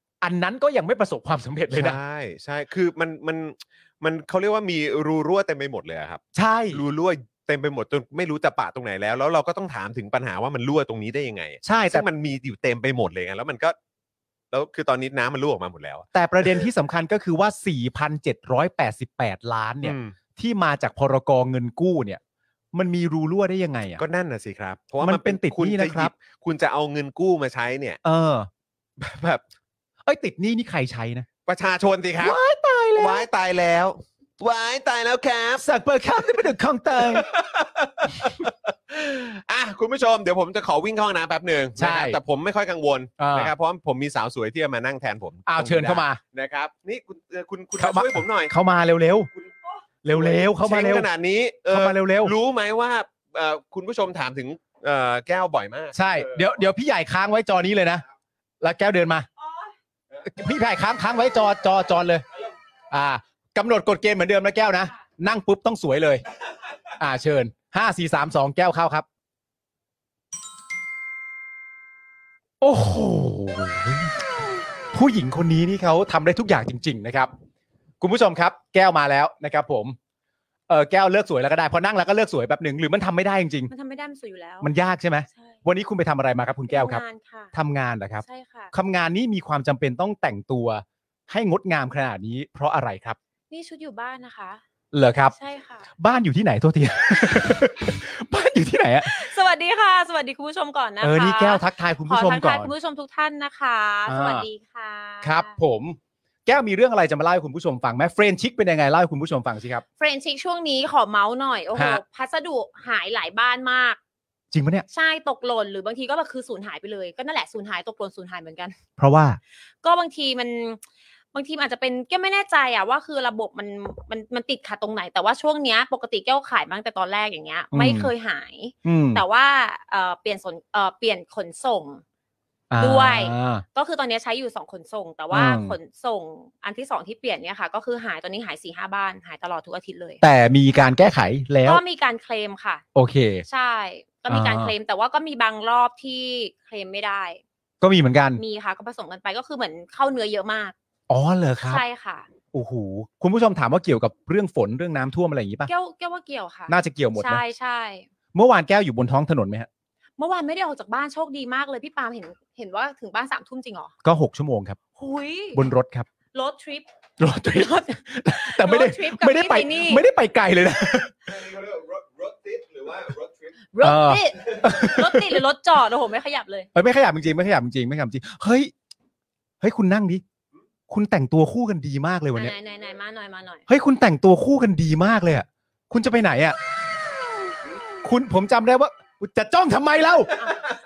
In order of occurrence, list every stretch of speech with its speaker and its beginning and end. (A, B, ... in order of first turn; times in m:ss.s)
0:00.2-0:02.0 A
0:01.7-0:13.8 B
0:06.3-0:06.8 A
0:11.6-0:12.0 A
0:14.5-0:16.7 B
0:16.1-0:22.2 A
0:19.8-0:20.1 B
0:22.7-0:24.0 A
0:24.0-0:28.0 B
0:25.0-0:26.1 A
0:28.0-0:28.5 A
0:29.0-0:29.4 B
0:30.0-0:31.3 A
0:31.4-0:32.4 B
0:32.2-0:33.2 A
0:33.0-0:35.6 B
0:35.6-0:37.3 A
0:36.9-0:48.5 B
0:41.8-0:42.2 A
0:43.2-0:43.5 A
0:45.4-0:46.2 A
0:47.8-0:49.3 A
0:50.0-0:51.1 A
0:50.1-0:56.6 B
0:51.7-0:52.3 A
0:55.9-0:58.0 A
0:58.6-0:59.3 A
1:00.2-1:02.2 A
1:02.9-1:06.2 A
1:07.0-1:09.0 A
1:12.6-1:14.2 A
1:14.9-1:17.3 A
1:18.0-1:20.0 A
1:20.7-1:23.7 A
1:23.7-1:24.7 C
1:24.6-1:27.0 A
1:26.7-1:27.5 C
1:27.5-1:33.2 A
1:28.2-1:28.7 C
1:33.5-1:34.6 C
1:34.9-1:35.3 A
1:35.3-1:35.9 C
1:36.0-1:39.2 A
1:39.0-1:45.5 C
1:41.0-1:42.7 A
1:44.1-1:44.4 A
1:45.2-1:49.8 A
1:50.0-1:54.0 C
1:51.7-1:52.0 A
1:54.5-1:54.8 A
1:54.9-1:58.8 C
1:59.0-1:59.4 A
1:59.8-2:00.8 C
2:01.3-2:12.0 C
2:07.7-2:08.1 A
2:08.8-2:09.2 A
2:12.7-2:13.6 A
2:12.8-2:20.2 C
2:15.3-2:15.8 A
2:20.2-2:21.8 A
2:21.6-2:22.8 C
2:22.9-2:23.4 A
2:23.5-2:27.4 C
2:24.3-2:24.7 A
2:27.8-2:28.4 A
2:28.4-2:30.7 C
2:31.1-2:31.8 A
2:31.6-2:32.3 C
2:32.5-2:35.7 A
2:35.7-2:38.0 C
2:36.7-2:37.4 A
2:38.3-2:39.7 A
2:40.2-2:43.9 C
2:44.0-2:44.8 A
2:45.0-2:45.6 C
2:45.5-2:46.1 A
2:46.3-2:46.9 C
2:47.2-2:51.1 A
2:47.5-2:50.0 C
2:51.2-2:53.5 B
2:53.7-2:56.7 C
2:53.8-2:55.4 A
2:54.5-2:54.8 B
2:56.7-2:58.7 A
2:59.6-3:00.2 A
3:00.9-3:02.5 A
3:02.3-3:03.6 C
3:03.7-3:06.6 A
3:08.0-3:10.4 A
3:10.5-3:10.7 B